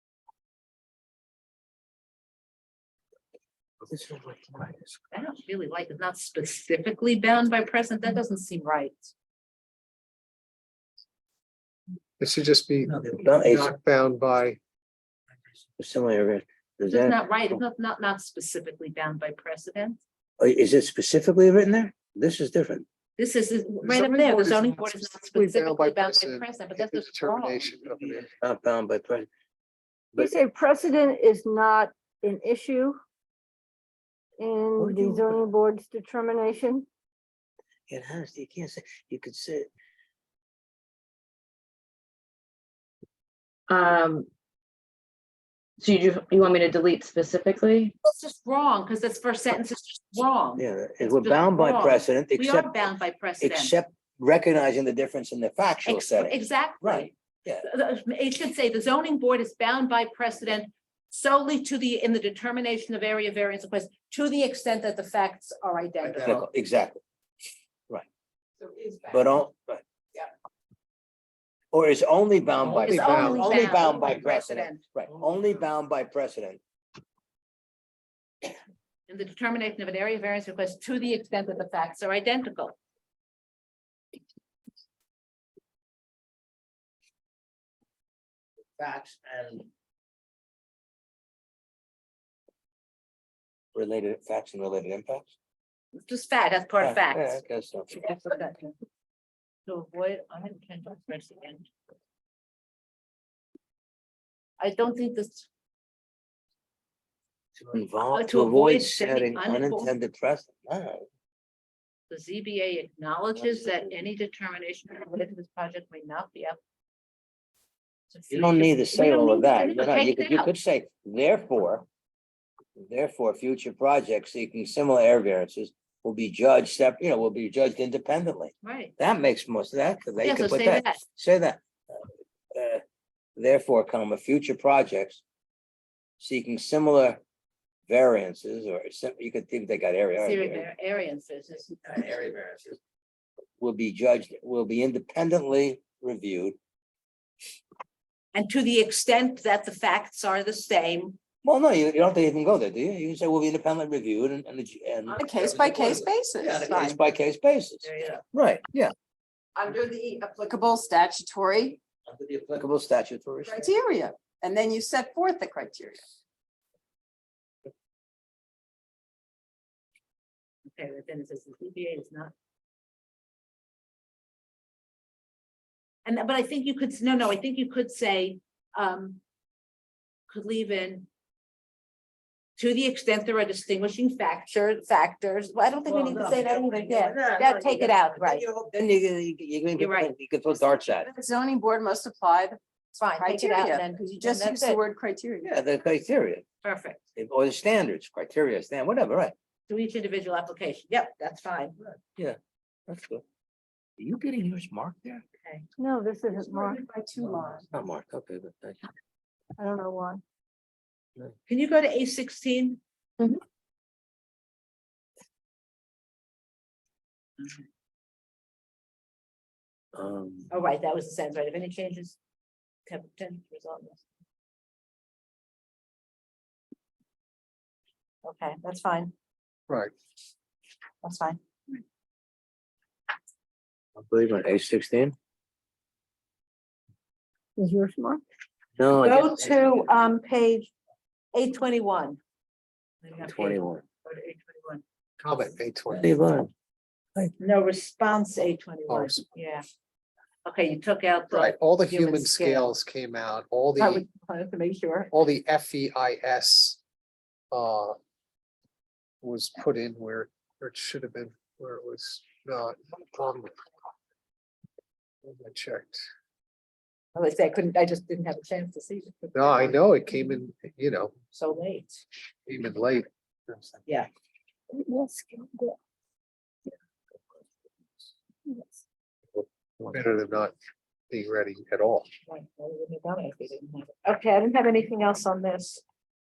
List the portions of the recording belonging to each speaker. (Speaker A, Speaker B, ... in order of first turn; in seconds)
Speaker A: 3.8-5.0, 12.9-13.7, 15.8-17.6, 20.4-22.8, 28.4-29.3, 34.8-35.4, 37.9-39.7, 50.6-52.7, 53.4-57.6, 66.1-67.0, 69.1-69.8, 71.7-76.6, 88.8-89.7, 93.7-95.3, 96.8-98.0, 107.6-111.0, 113.3-113.9, 118.3-121.8, 122.8-132.8, 133.4-135.2, 136.2-137.2, 137.9-140.6, 141.8-142.8, 143.6-146.6, 151.4-158.9, 162.1-163.7, 185.8-191.1, 195.4-196.4, 197.2-199.3, 202.9-203.2, 204.0-205.2, 207.7-208.8, 219.9-220.5, 234.0-235.1, 238.8-239.7, 243.2-243.8, 245.9-246.5
Speaker B: 5.1-9.1, 16.9-20.0, 23.2-27.8, 48.0-53.7, 55.8-66.5, 72.8-74.8, 79.1-82.8, 95.9-98.7, 99.7-101.7, 104.6-105.5, 108.1-109.9, 112.1-116.6, 118.1-120.5, 128.6-128.9, 130.2-131.0, 140.2-141.8, 148.3-151.2, 156.5-157.0, 157.8-158.2, 170.7-172.3, 176.0-179.2, 180.3-181.1, 182.6-188.4, 189.8-190.1, 192.9-194.8, 196.6-197.0, 199.7-201.8, 211.5-212.8, 217.4-217.6, 220.5-222.2, 222.8-224.0, 228.2-229.1, 231.0-231.4, 239.0-240.7, 241.3-242.2, 243.0-244.8, 247.4-249.6, 250.4-252.7, 253.8-255.1, 267.1-269.8, 271.3-272.0, 274.9-275.6, 282.2-285.8
Speaker C: 12.2-14.6, 23.8-28.3, 72.8-73.5, 245.2-246.1, 248.9-249.2, 251.3-254.1, 255.1-256.8, 257.5-257.9, 259.2-263.6, 265.2-266.0, 269.3-271.1, 272.4-273.8, 279.9-280.5, 281.1-282.1
Speaker D: 30.2-33.0, 34.4-36.9, 205.8-206.8, 209.6-210.2, 237.6-238.2
Speaker E: 43.7-44.3, 45.8-48.0
Speaker F: 68.6-69.2, 155.1-156.7, 159.6-161.8, 163.4-166.1, 191.0-192.6, 193.1-195.5, 206.3-207.7